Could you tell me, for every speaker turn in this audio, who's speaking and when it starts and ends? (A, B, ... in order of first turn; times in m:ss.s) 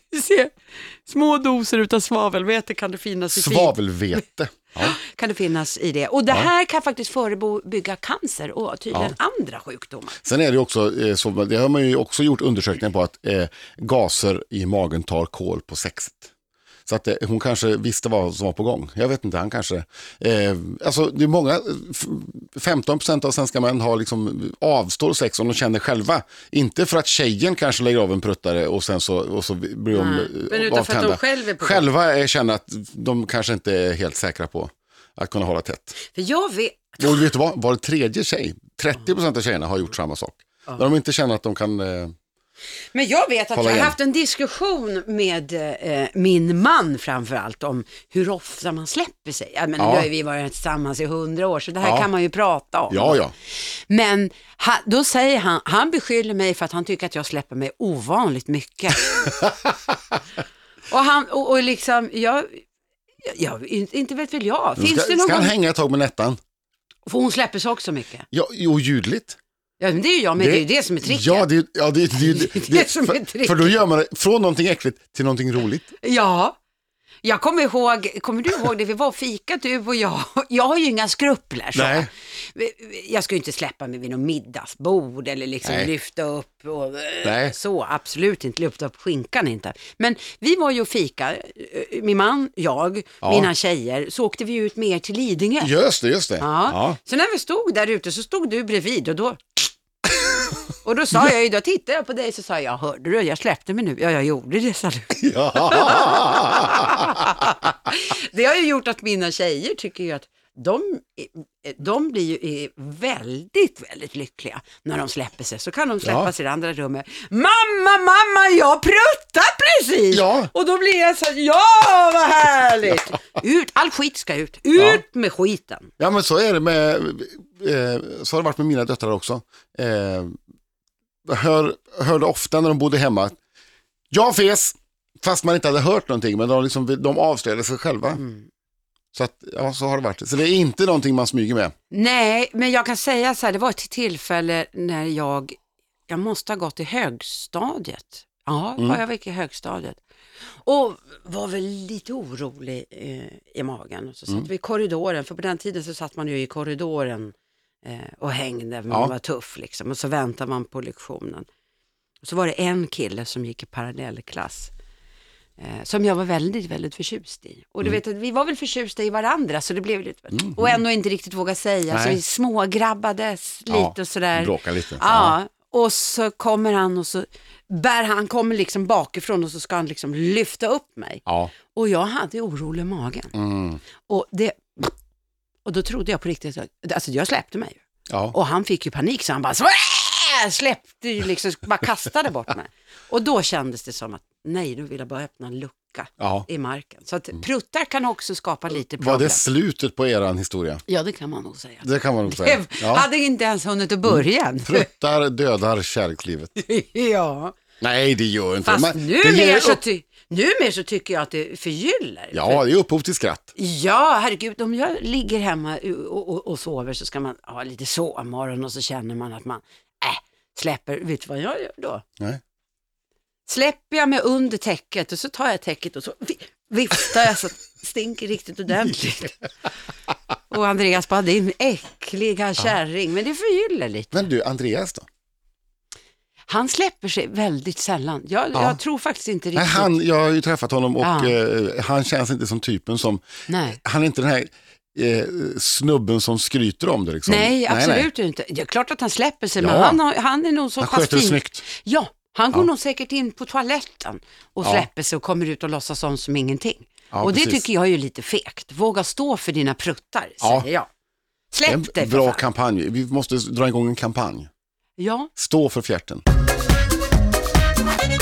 0:00.1-0:03.8 A
0:03.3-0:05.0 B
0:04.8-0:10.2 A
0:10.2-0:16.3 B
0:16.9-0:36.0 B
0:29.9-0:31.9 A
0:36.1-0:37.2 A
0:37.0-0:42.1 B
0:42.9-0:53.2 A
0:43.6-0:44.0 B
0:49.8-0:50.1 B
0:51.8-0:52.1 B
0:52.9-0:53.3 B
0:53.9-0:59.3 A
1:00.9-1:02.6 A
1:03.2-1:05.5 A
1:04.8-1:06.4 B
1:07.1-1:08.3 A
1:08.3-1:09.4 B
1:09.8-1:11.5 A
1:10.4-1:15.9 B
1:12.2-1:13.8 A
1:16.0-1:16.6 A
1:17.2-1:35.7 A
1:21.7-1:22.1 B
1:25.6-1:25.9 B
1:27.2-1:27.6 B
1:33.2-1:33.5 B
1:35.6-1:37.0 B
1:36.4-1:39.7 A
1:40.8-2:05.9 A
1:45.2-1:47.5 B
1:56.0-1:56.3 B
2:00.1-2:00.5 B
2:04.8-2:05.0 B
2:06.0-2:10.4 B
2:11.2-2:13.4 B
2:14.1-2:18.2 B
2:18.2-2:18.5 A
2:19.1-2:21.7 B
2:21.9-2:30.0 A
2:30.6-2:41.5 A
2:42.2-2:44.7 A
2:45.6-3:03.3 A
2:50.3-2:50.8 B
2:51.9-2:52.2 B
2:53.7-2:55.4 B
3:01.3-3:01.5 B
3:03.3-3:03.8 B
3:04.0-3:04.9 A
3:05.6-3:07.8 A
3:08.1-3:08.4 B
3:08.3-3:19.4 A
3:16.2-3:16.5 B
3:18.9-3:20.8 B
3:20.9-3:24.9 A
3:21.8-3:23.1 B
3:24.1-3:26.5 B
3:26.6-3:27.6 A
3:27.8-3:29.8 B
3:28.6-3:32.6 A
3:32.3-3:33.5 B
3:33.6-3:42.0 A
3:43.5-3:49.4 A
3:50.5-3:54.2 A
3:54.1-3:55.1 B
3:56.5-3:59.9 A
3:59.6-4:08.1 B
4:01.0-4:01.4 A
4:03.5-4:03.8 A
4:07.3-4:20.9 A
4:09.6-4:10.0 B
4:10.8-4:11.6 B
4:17.1-4:17.6 B
4:20.4-4:20.7 B
4:21.5-4:22.4 A
4:21.7-4:24.5 B
4:25.0-4:25.3 A
4:25.4-4:26.2 B